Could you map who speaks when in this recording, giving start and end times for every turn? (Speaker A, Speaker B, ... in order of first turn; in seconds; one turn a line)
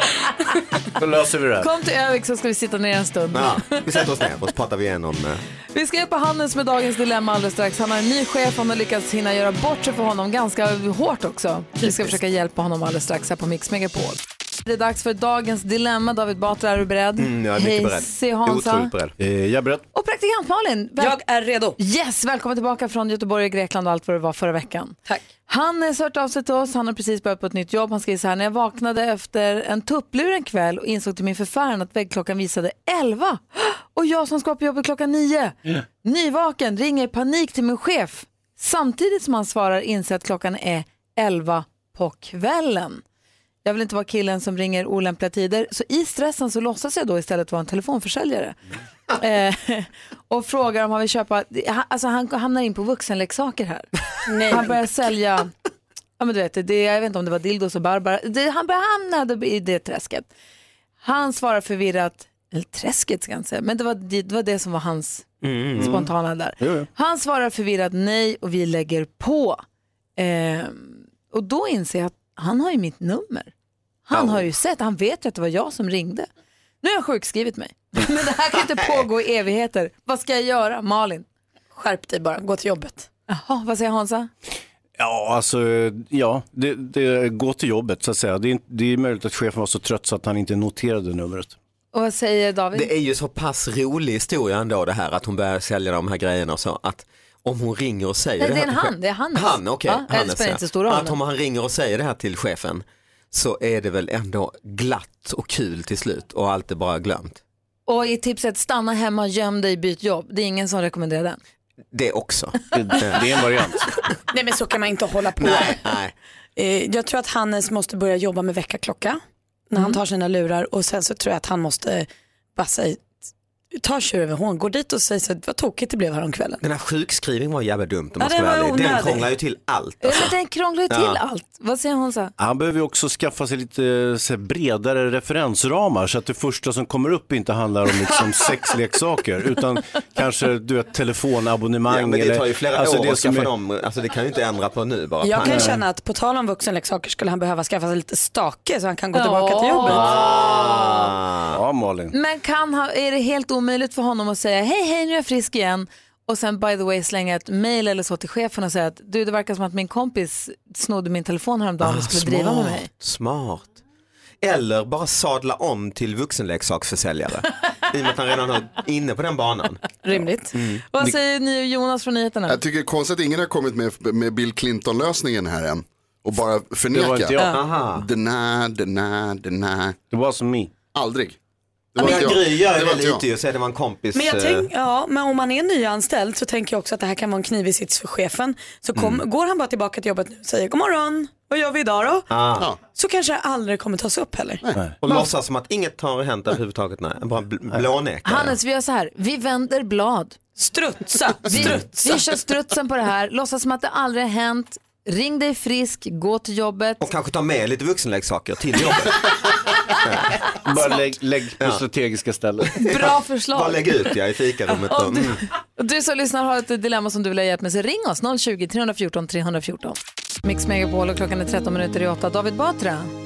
Speaker A: 1.0-1.7
Speaker B: 1.6-4.0
Speaker C: 3.3-5.4
Speaker B: 5.7-18.9
Speaker C: 17.2-19.1
Speaker A: 19.2-19.8
Speaker B: 19.9-21.2
Speaker D: 21.0-21.8
Speaker B: 21.8-43.0
Speaker B: 43.6-48.6
Speaker B: 49.2-54.0
Speaker D: 54.3-54.8
Speaker B: 54.5-55.5
Speaker B: 56.2-60.3
Speaker B: 61.0-69.6
Speaker C: 65.4-66.0
Speaker A: 65.8-66.9
Speaker B: 70.2-73.5
Speaker B: 74.1-76.3
Speaker C: 74.1-74.4
Speaker B: 76.8-81.2
Speaker D: 81.8-83.1
Speaker B: 83.3-84.3
Speaker A: 85.0-91.5
Speaker B: 91.9-92.9
Speaker C: 92.7-107.4
Speaker B: 98.4-101.2
Speaker B: 107.9-111.4
Speaker C: 111.9-113.2
Speaker A: 112.7-113.8
Speaker D: 114.3-115.9
Speaker C: 115.4-116.1
Speaker D: 116.6-123.2
Speaker D: 123.7-126.6
Speaker C: 126.6-130.3
Speaker D: 128.2-129.3
Speaker B: 130.0-132.3
Speaker C: 130.9-131.2
Speaker A: 132.4-143.5
Speaker C: 141.9-145.8
Speaker D: 145.2-150.1
Speaker A: 145.4-145.8
Speaker B: 149.1-151.1
Speaker C: 149.8-151.6
Speaker A: 151.5-152.1
Speaker B: 152.1-162.9
Speaker C: 161.8-163.8
Speaker C: 164.4-169.9
Speaker D: 170.0-170.5
Speaker C: 170.5-170.8
Speaker B: 170.9-172.6
Speaker E: 172.5-177.4
Speaker A: 176.9-177.5
Speaker C: 177.5-178.1
Speaker E: 178.0-180.0
Speaker A: 180.1-180.7
Speaker E: 180.9-181.4
Speaker E: 181.9-183.2
Speaker C: 182.0-184.7
Speaker D: 184.1-192.3
Speaker C: 189.0-189.2
Speaker C: 192.3-192.7
Speaker D: 192.9-194.6
Speaker C: 195.0-198.6
Speaker B: 198.2-200.4
Speaker D: 200.6-202.3
Speaker C: 201.5-201.8
Speaker B: 201.5-207.0
Speaker C: 207.0-209.4
Speaker C: 210.0-210.4
Speaker A: 210.6-212.7
Speaker C: 212.7-215.4
Speaker B: 212.8-213.9
Speaker B: 214.9-223.1